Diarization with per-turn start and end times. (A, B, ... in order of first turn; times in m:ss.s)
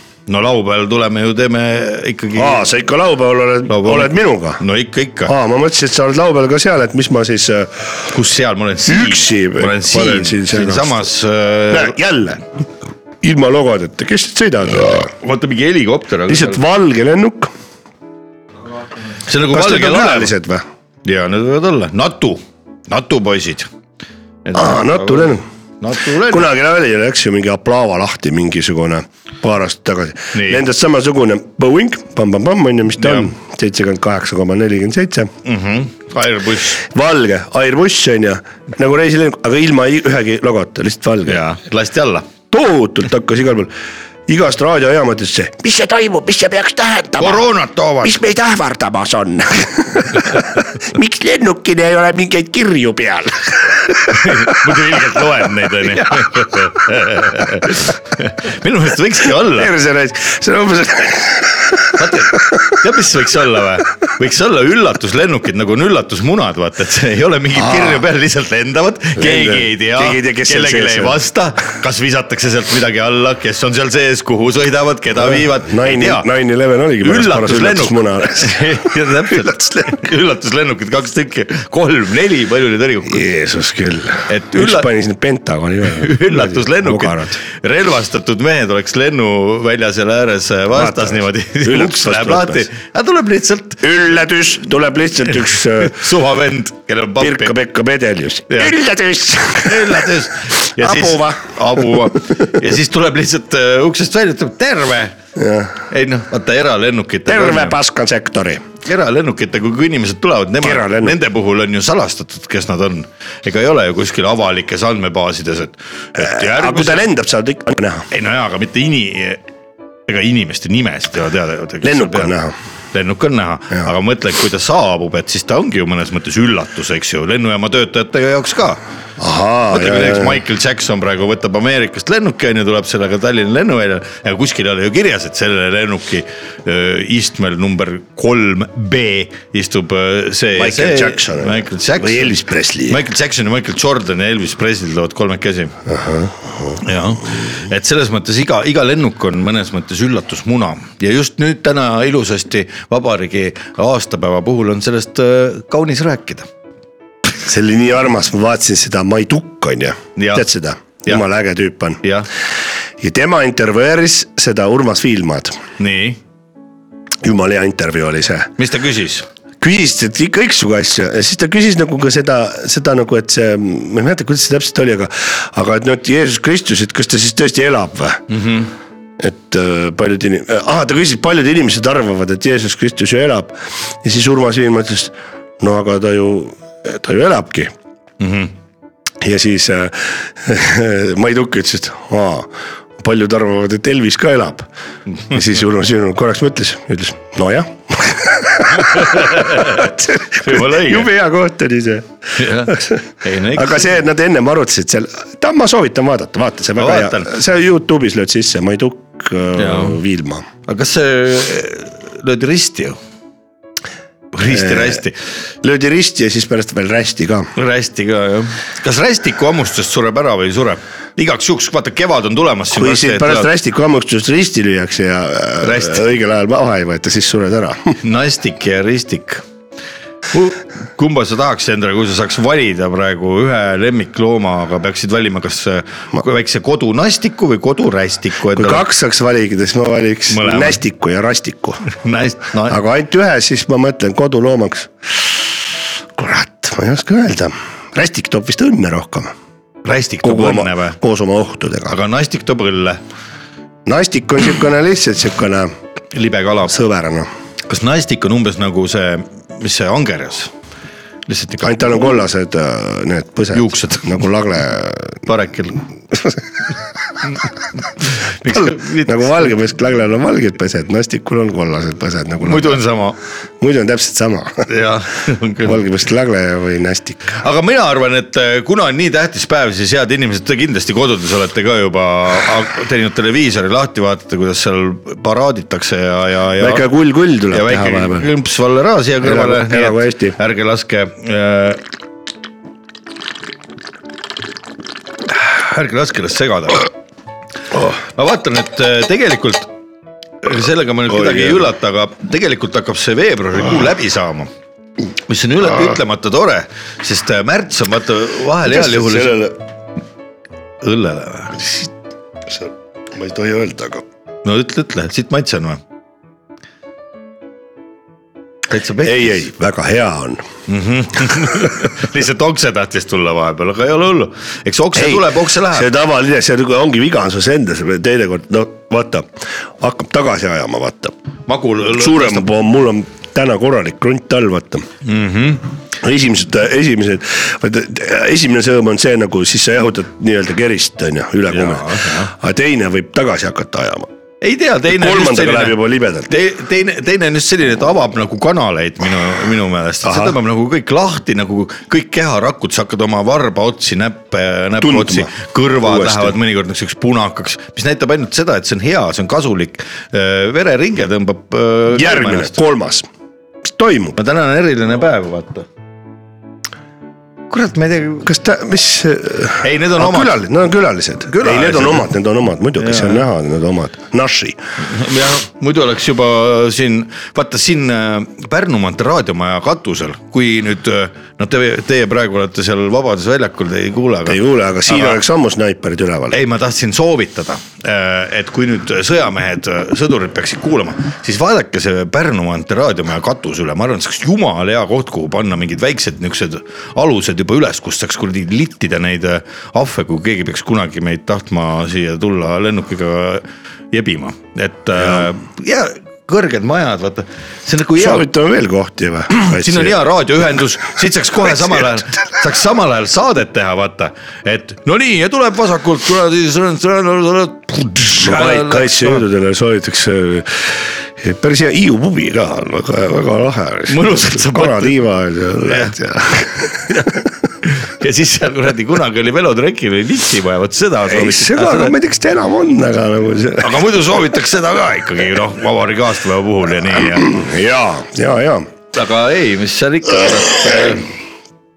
0:00.3-0:02.7 A
0:02.3-0:04.6 B
0:03.7-0:05.3 A
0:05.2-0:08.0 B
0:08.1-0:12.0 A
0:08.8-0:11.0 B
0:11.7-0:12.4 B
0:13.2-0:15.1 B
0:15.2-0:16.6 A
0:16.2-0:17.5 B
0:19.3-0:20.3 A
0:19.5-0:20.6 B
0:21.0-0:23.7 A
0:24.4-0:26.5 A
0:24.5-0:25.4 B
0:26.2-0:35.3 B
0:30.3-0:30.6 A
0:33.0-0:33.3 A
0:35.4-0:36.8 A
0:36.8-0:41.4 B
0:41.3-0:42.3 A
0:42.5-0:43.7 B
0:44.3-0:47.5 B
0:47.2-0:48.1 A
0:48.0-0:54.6 B
0:54.1-0:59.7 A
0:55.8-0:56.6 B
0:59.4-1:02.0 B
1:01.9-1:16.3 A
1:07.5-1:08.0 B
1:09.2-1:11.2 B
1:15.2-1:18.6 B
1:17.0-1:23.3 A
1:19.3-1:19.9 B
1:23.0-1:27.4 B
1:24.3-1:24.9 A
1:25.9-1:33.8 A
1:30.7-1:32.7 B
1:33.8-1:36.0 B
1:35.8-1:37.5 A
1:37.2-1:40.1 B
1:38.5-1:38.7 A
1:39.6-1:45.1 A
1:40.8-1:42.0 B
1:45.4-1:45.8 B
1:45.9-1:47.8 A
1:47.2-1:48.6 B
1:48.8-1:57.0 A
1:50.6-1:51.2 B
1:56.2-1:58.0 B
1:58.1-1:59.4 A
2:00.1-2:02.3 A
2:01.8-2:02.5 B
2:02.9-2:08.8 A
2:09.2-2:10.4 B
2:09.7-2:22.3 A
2:20.5-2:23.0 B
2:22.9-2:25.7 A
2:25.9-2:26.8 B
2:26.8-2:36.5 A
2:37.4-2:42.0 B
2:40.2-2:40.5 A
2:42.0-2:42.3 A
2:43.0-2:45.6 B
2:45.8-2:46.2 A
2:47.2-2:48.5 B
2:48.6-2:49.2 A
2:49.6-2:58.2 B
2:58.3-2:58.7 A
2:59.2-3:07.7 B
3:08.2-3:08.5 A
3:09.2-3:14.7 B
3:15.3-3:30.5 B
3:18.7-3:21.1 A
3:22.4-3:24.0 A
3:26.8-3:27.3 A
3:29.6-3:30.0 A
3:30.7-3:33.0 A
3:34.3-3:35.2 A
3:34.4-3:35.0 B
3:35.6-3:37.5 B
3:37.6-3:43.5 A
3:42.7-3:48.0 B
3:45.6-3:46.0 A
3:48.0-3:49.4 A
3:50.3-3:58.8 A
3:58.5-4:01.8 B
4:00.3-4:00.8 A
4:01.8-4:02.8 A
4:02.6-4:05.1 B
4:06.2-4:09.3 B
4:09.8-4:11.0 A
4:10.2-4:12.0 B
4:11.9-4:13.0 A
4:13.8-4:15.7 B
4:16.1-4:16.8 A
4:16.7-4:17.3 B
4:17.7-4:20.5 A
4:21.3-4:22.2 A
4:21.6-4:25.2 B
4:23.5-4:24.2 A
4:25.2-4:25.8 A
4:26.1-4:26.4 B
4:28.4-4:29.5 A
4:28.4-4:32.8 B
4:32.4-4:33.2 A
4:33.6-4:34.7 B
4:34.7-4:35.8 A
4:35.6-4:37.4 B
4:37.3-4:46.8 A
4:46.6-4:48.3 B
4:47.5-4:51.8 A
4:49.2-4:50.4 B
4:55.3-4:56.9 A
4:58.1-4:59.7 A
5:00.4-5:04.5 A
5:01.1-5:01.7 B
5:05.3-5:09.4 A
5:08.6-5:09.6 B
5:10.8-5:11.7 A
5:12.5-5:14.0 B
5:14.4-5:15.8 A
5:18.7-5:19.5 A
5:19.0-5:20.4 B
5:20.7-5:25.9 A
5:24.9-5:31.1 B
5:31.5-5:32.5 A
5:31.8-5:34.9 B
5:35.0-5:35.6 A
5:36.0-5:44.1 B
5:41.5-5:42.3 A
5:44.4-6:02.6 A
5:44.9-5:46.3 B
5:50.0-5:50.4 B
5:54.8-5:56.4 B
6:01.9-6:03.1 B
6:03.7-6:04.2 B
6:04.2-6:05.7 A
6:07.5-6:08.3 A
6:08.2-6:14.6 B
6:09.6-6:10.4 A
6:11.3-6:12.1 A
6:12.8-6:13.2 A
6:14.8-6:25.2 A
6:24.2-6:26.4 B
6:26.3-6:48.2 A
6:45.0-6:45.3 B
6:47.9-6:50.0 B
6:49.4-6:59.2 A
6:51.4-6:51.8 B
6:58.2-7:07.1 B
7:03.9-7:05.0 A
7:05.7-7:11.9 A
7:11.0-7:13.8 B
7:13.6-7:17.4 A
7:17.0-7:18.7 B
7:18.9-7:21.0 A